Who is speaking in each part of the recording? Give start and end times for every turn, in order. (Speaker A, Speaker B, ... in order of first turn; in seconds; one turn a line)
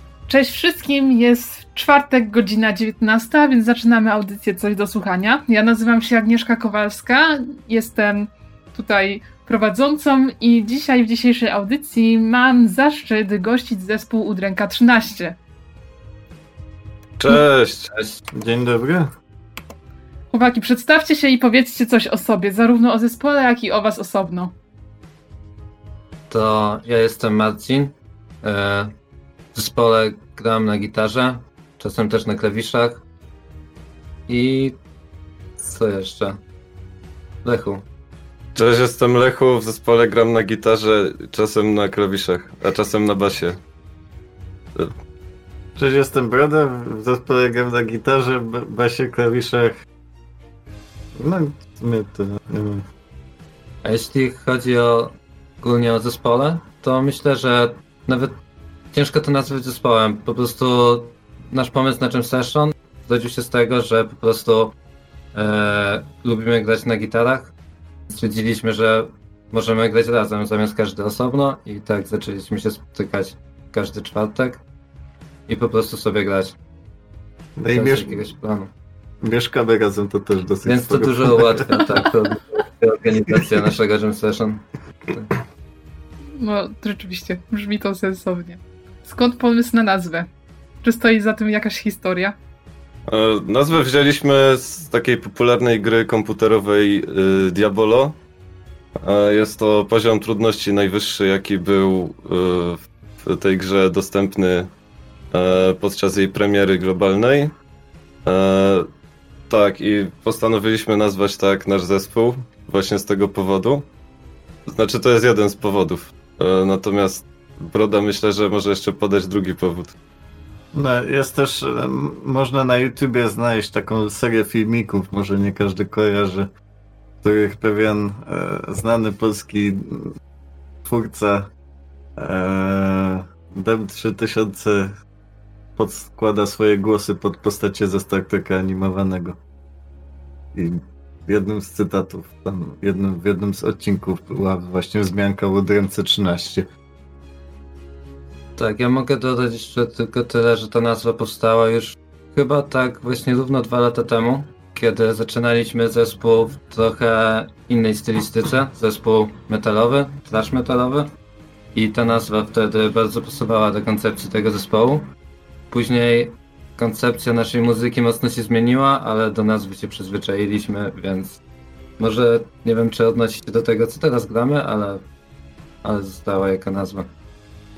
Speaker A: 0.3-15.4
Speaker B: 17.2-17.9
Speaker C: 18.3-19.1
Speaker A: 20.3-24.5
Speaker D: 26.3-28.9
Speaker D: 29.6-33.0
Speaker D: 34.3-34.8
Speaker D: 35.6-36.4
Speaker D: 37.4-37.8
Speaker B: 38.5-43.6
Speaker C: 45.8-49.8
Speaker C: 51.2-52.9
Speaker D: 53.8-58.4
Speaker D: 58.9-64.8
Speaker D: 65.3-67.5
Speaker D: 68.1-74.6
Speaker D: 75.5-76.6
Speaker C: 77.6-78.3
Speaker D: 77.7-78.7
Speaker C: 79.2-82.0
Speaker D: 80.7-85.3
Speaker A: 86.4-90.3
Speaker A: 90.8-92.3
Speaker B: 93.1-98.2
Speaker B: 99.0-104.7
Speaker B: 105.3-107.5
Speaker B: 108.3-108.9
Speaker B: 109.5-113.9
Speaker B: 114.7-120.0
Speaker C: 120.7-126.5
Speaker C: 127.2-130.2
Speaker C: 130.8-131.5
Speaker C: 132.2-134.9
Speaker C: 135.8-139.4
Speaker C: 140.5-146.7
Speaker D: 148.6-161.1
Speaker D: 161.7-165.1
Speaker D: 165.7-171.4
Speaker D: 172.0-175.0
Speaker D: 175.8-177.1